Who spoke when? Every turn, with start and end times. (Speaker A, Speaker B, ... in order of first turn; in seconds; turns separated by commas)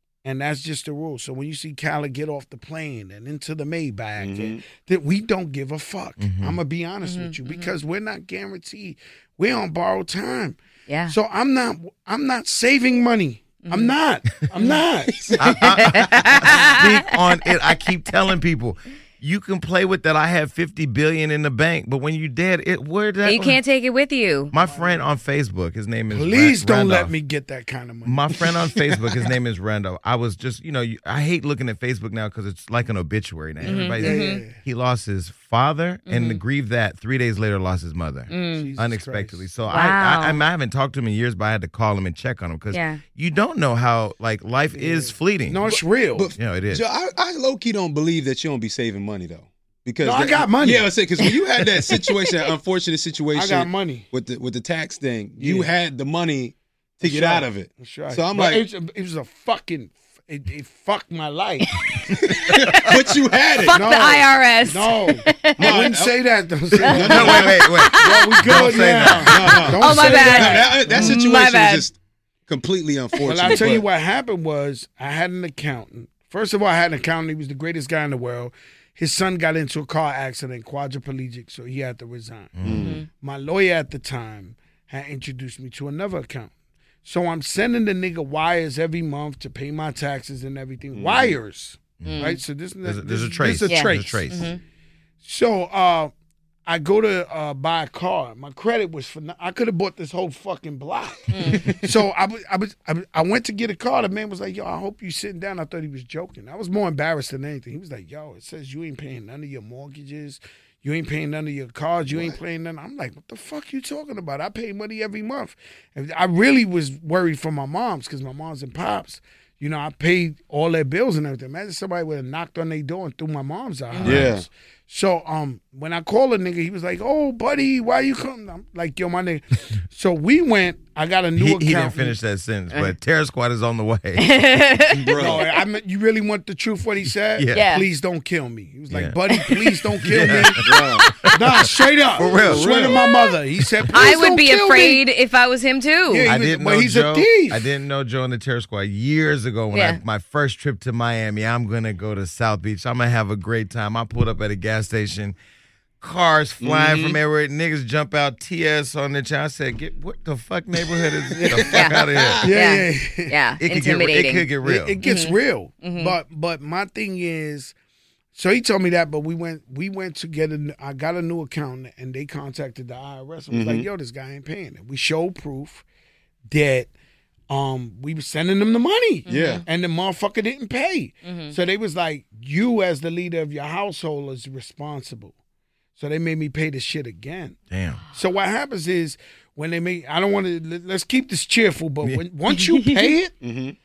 Speaker A: 0.2-10.6, Speaker B: 4.2-4.6, Speaker C: 6.2-6.6, Speaker D: 7.0-7.7, Speaker D: 10.9-11.1, Speaker A: 11.1-15.4, Speaker D: 13.6-13.9, Speaker D: 14.5-14.8, Speaker B: 15.1-16.1, Speaker C: 15.4-23.6, Speaker D: 16.0-16.9, Speaker D: 23.2-24.5, Speaker C: 24.5-27.1, Speaker A: 24.6-25.1, Speaker A: 26.1-28.7, Speaker C: 28.0-45.6, Speaker A: 33.6-34.5, Speaker D: 33.6-34.4, Speaker D: 36.1-36.4, Speaker D: 38.3-38.7, Speaker A: 38.5-39.5, Speaker D: 39.7-40.4, Speaker D: 42.7-43.0, Speaker A: 44.7-46.3, Speaker B: 46.1-58.6, Speaker C: 46.4-46.8, Speaker A: 50.0-50.9, Speaker D: 51.9-52.5, Speaker A: 53.3-54.1, Speaker A: 55.4-55.7, Speaker A: 57.0-62.2, Speaker D: 61.6-63.0, Speaker B: 62.2-63.8, Speaker D: 63.6-65.9, Speaker A: 63.6-71.2, Speaker B: 65.6-66.1, Speaker B: 66.8-67.6, Speaker D: 66.8-68.8, Speaker C: 67.0-70.0, Speaker B: 69.2-72.0, Speaker D: 69.5-71.8, Speaker B: 72.5-73.8, Speaker A: 73.2-82.6, Speaker D: 73.4-73.7, Speaker C: 82.5-82.9, Speaker B: 82.6-83.0, Speaker D: 82.7-83.1, Speaker A: 83.2-86.5, Speaker A: 87.0-94.4, Speaker B: 90.9-91.4, Speaker C: 92.0-94.5, Speaker D: 92.0-92.4, Speaker D: 93.6-94.6, Speaker A: 95.2-96.1, Speaker A: 96.7-132.2, Speaker D: 101.3-101.7, Speaker B: 101.5-101.9, Speaker B: 112.1-112.4, Speaker D: 123.9-124.3, Speaker B: 124.0-124.5, Speaker C: 131.3-134.3, Speaker D: 134.2-135.6, Speaker B: 134.9-135.4, Speaker A: 135.2-140.6, Speaker C: 137.3-137.6, Speaker D: 137.5-137.8, Speaker C: 138.9-139.2, Speaker D: 139.3-139.7, Speaker C: 140.0-140.6, Speaker B: 140.6-141.1, Speaker D: 141.0-141.3, Speaker A: 141.3-145.0, Speaker C: 142.2-142.8, Speaker B: 142.2-143.0, Speaker D: 142.9-143.3, Speaker D: 143.9-146.3, Speaker A: 146.1-147.7, Speaker C: 146.2-155.3, Speaker D: 149.7-150.0, Speaker C: 156.0-162.5, Speaker B: 156.6-157.2, Speaker A: 161.3-161.7, Speaker B: 161.6-162.4, Speaker D: 161.7-164.5, Speaker A: 162.4-163.3, Speaker C: 163.6-165.0, Speaker A: 164.6-167.7, Speaker D: 165.0-166.2, Speaker A: 168.3-175.8, Speaker B: 173.5-173.9, Speaker A: 176.5-176.9, Speaker A: 177.5-185.3, Speaker D: 179.2-179.6, Speaker B: 179.3-179.6, Speaker D: 181.2-181.5, Speaker A: 185.9-187.6, Speaker C: 187.7-188.0, Speaker A: 188.1-193.3, Speaker D: 192.5-193.1, Speaker B: 193.4-193.8